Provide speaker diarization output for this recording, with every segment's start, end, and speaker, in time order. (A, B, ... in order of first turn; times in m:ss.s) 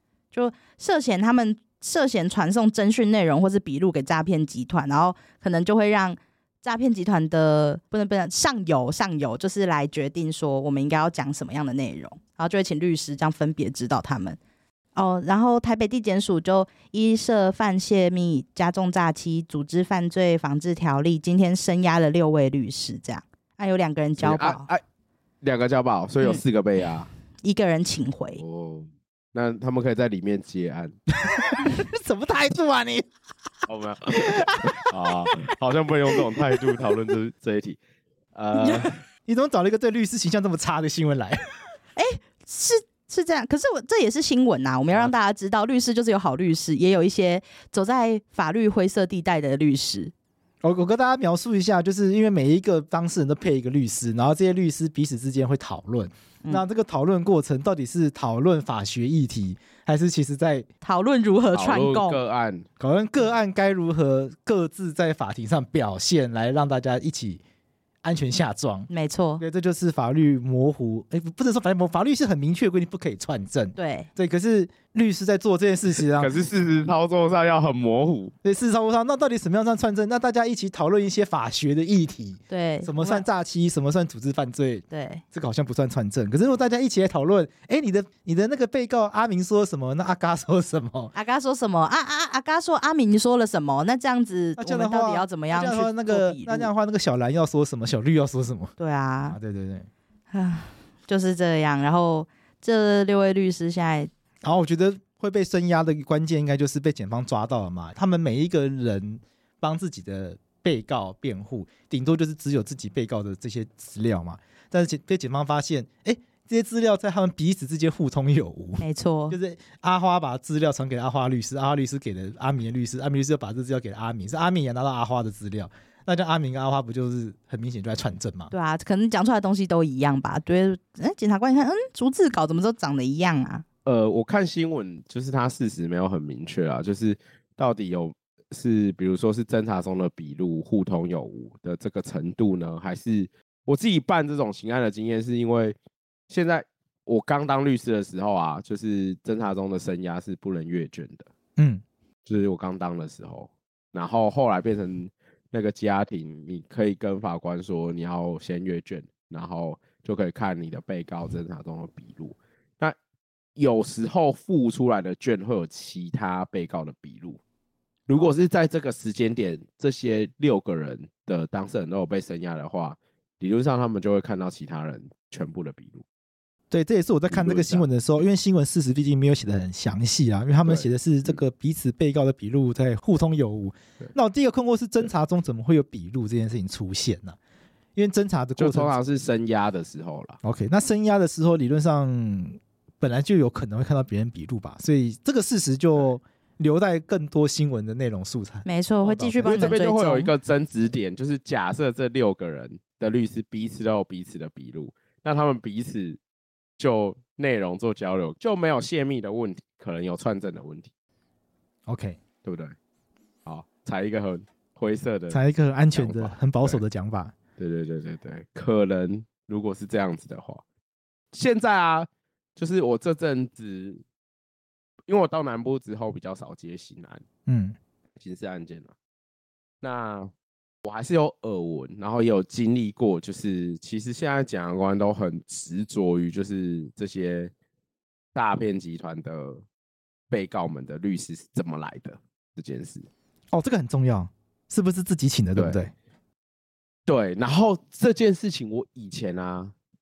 0:00.3-0:14.4 A
0:14.9-0:24.7 A
0:24.2-0:24.8 B
0:25.4-0:27.1 B
0:27.4-0:28.4 A
0:28.4-0:31.0 B
0:31.2-0:33.1 C
0:33.7-0:37.8 B
0:34.1-0:34.8 C
0:36.3-0:36.9 C
0:38.3-0:39.0 B
0:39.3-0:41.4 C
0:42.0-0:50.1 A
0:50.6-1:00.7 C
1:00.8-1:02.2 A
1:01.5-1:02.6 B
1:02.8-1:07.4 C
1:08.0-1:16.3 C
1:08.9-1:09.4 A
1:13.8-1:14.1 A
1:16.0-1:18.3 B
1:18.4-1:31.1 C
1:22.5-1:23.2 A
1:24.9-1:25.2 A
1:31.1-1:36.7 A
1:34.6-1:38.7 C
1:38.8-1:39.4 A
1:39.3-1:39.9 C
1:40.3-1:44.1 A
1:44.4-2:08.5 C
1:58.8-1:59.4 A
2:08.5-2:13.6 A
2:13.8-2:25.8 B
2:26.3-2:31.3 B
2:31.6-2:31.8 C
2:32.2-2:43.0 B
2:43.6-2:47.4 B
2:48.1-2:56.0 B
2:56.7-3:07.4 C
2:57.3-2:57.9 B
3:00.6-3:01.4 B
3:08.0-3:08.9 C
3:08.6-3:10.4 B
3:10.4-3:19.8 C
3:18.6-3:20.3 A
3:19.4-3:26.2 B
3:26.8-3:30.9 B
3:31.9-3:32.2 C
3:32.4-3:32.7 B
3:33.4-3:35.4 B
3:35.3-3:37.3 C
3:35.9-3:36.8 B
3:37.6-3:40.6 B
3:41.3-3:44.0 B
3:45.1-3:47.2 B
3:47.4-3:47.8 C
3:48.2-3:48.9 B
3:49.8-3:50.3 B
3:50.8-3:57.5 B
3:58.3-3:59.6 B
4:00.3-4:03.1 B
4:03.5-4:05.9 C
4:05.6-4:05.8 B
4:07.1-4:09.7 B